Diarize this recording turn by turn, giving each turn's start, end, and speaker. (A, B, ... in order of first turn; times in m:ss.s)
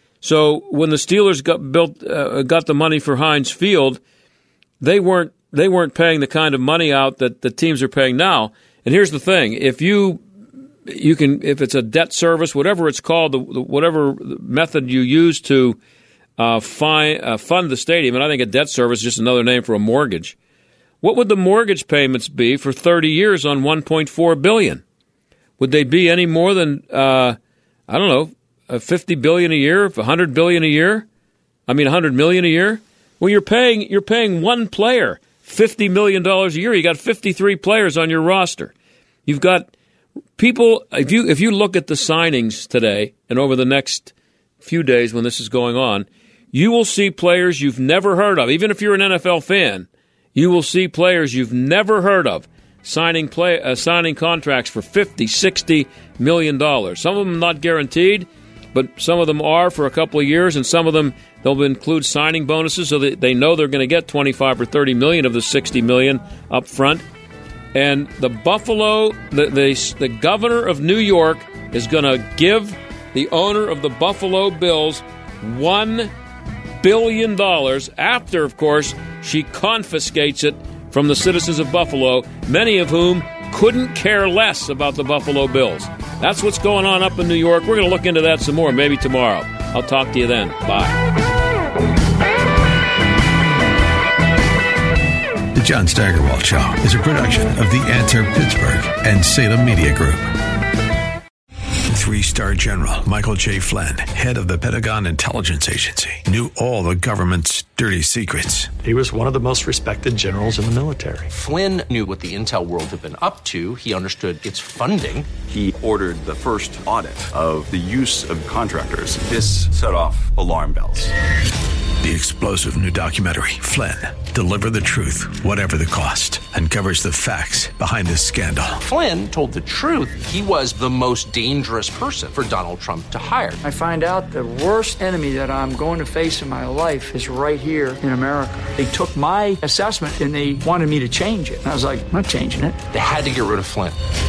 0:00.2-0:04.0 A
0:04.8-0:10.2 A
0:10.9-0:15.8 A
0:16.4-0:20.4 A
0:21.0-0:24.8 A
0:25.6-0:27.4 A
0:27.9-0:31.0 A
0:31.7-0:38.7 A
0:39.3-0:39.7 A
0:40.4-1:07.0 A
1:07.7-1:16.1 A
1:16.8-1:31.0 A
1:35.6-1:40.3 B
1:41.9-1:48.7 B
1:48.8-1:51.3 C
1:51.3-1:55.3 D
1:55.5-2:01.1 E
2:02.0-2:08.8 B
2:08.8-2:13.6 D
2:13.6-2:22.7 F
2:22.9-2:24.0 D